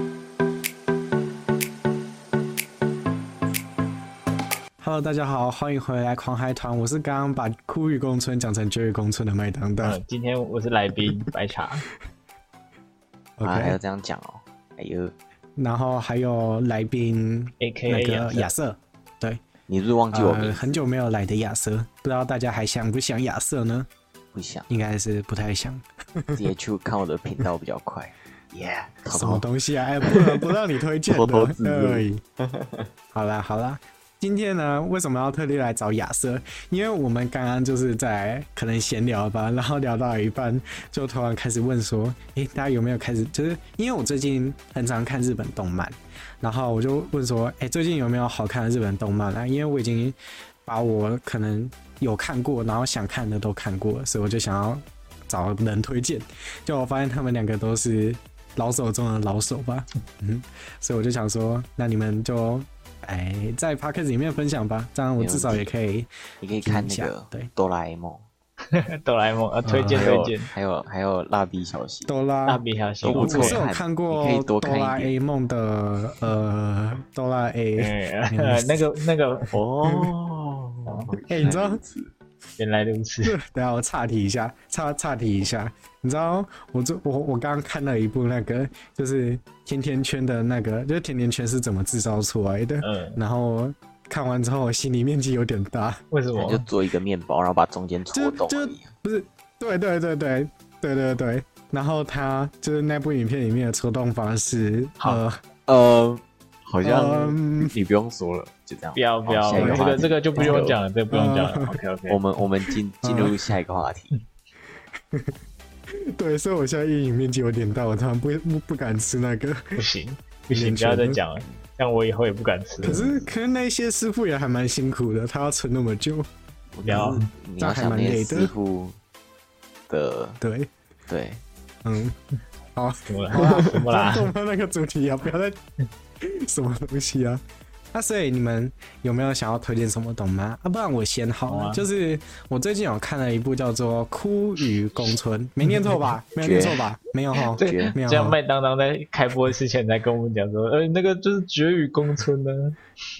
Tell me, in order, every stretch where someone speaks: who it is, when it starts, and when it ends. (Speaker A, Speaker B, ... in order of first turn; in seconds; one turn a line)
Speaker A: 4.8-10.0
Speaker B: 9.8-11.8
Speaker A: 11.0-11.3
Speaker A: 13.4-13.8
Speaker C: 13.4-15.1
Speaker A: 15.6-19.4
Speaker B: 17.6-18.5
Speaker C: 19.7-20.7
Speaker A: 20.1-23.9
Speaker C: 24.3-24.7
Speaker A: 24.7-26.4
Speaker C: 26.3-29.5
Speaker A: 29.1-32.2
Speaker C: 30.0-32.9
Speaker A: 33.1-67.5
Speaker C: 65.2-65.7
Speaker C: 66.4-68.2
Speaker B: 68.7-70.5
Speaker A: 69.6-70.2
Speaker C: 69.9-72.1
Speaker A: 72.1-78.9
Speaker B: 72.5-73.6
Speaker C: 73.0-75.1
Speaker B: 77.8-79.6
Speaker C: 79.5-82.1
Speaker A: 79.8-80.1
Speaker B: 80.8-81.5
Speaker A: 81.3-81.8
Speaker B: 82.6-83.4
Speaker A: 83.2-96.0
Speaker B: 92.8-93.2
Speaker B: 96.1-96.7
Speaker C: 96.3-98.9
Speaker A: 98.1-105.4
Speaker C: 105.7-110.8
Speaker A: 106.8-107.7
Speaker B: 109.0-112.2
Speaker A: 109.5-111.8
Speaker C: 112.1-114.2
Speaker A: 112.7-113.5
Speaker A: 115.1-119.8
Speaker B: 119.7-123.2
Speaker A: 120.5-121.2
Speaker A: 122.8-126.3
Speaker C: 126.7-129.0
Speaker B: 126.8-127.3
Speaker A: 127.6-128.5
Speaker C: 129.9-130.4
Speaker A: 130.4-130.7
Speaker C: 131.1-131.4
Speaker A: 131.8-132.2
Speaker A: 132.7-135.6
Speaker B: 133.0-134.3
Speaker A: 136.2-148.4
Speaker B: 141.5-141.8
Speaker B: 145.7-146.0
Speaker C: 146.4-146.9
Speaker C: 147.5-147.9
Speaker B: 147.6-152.8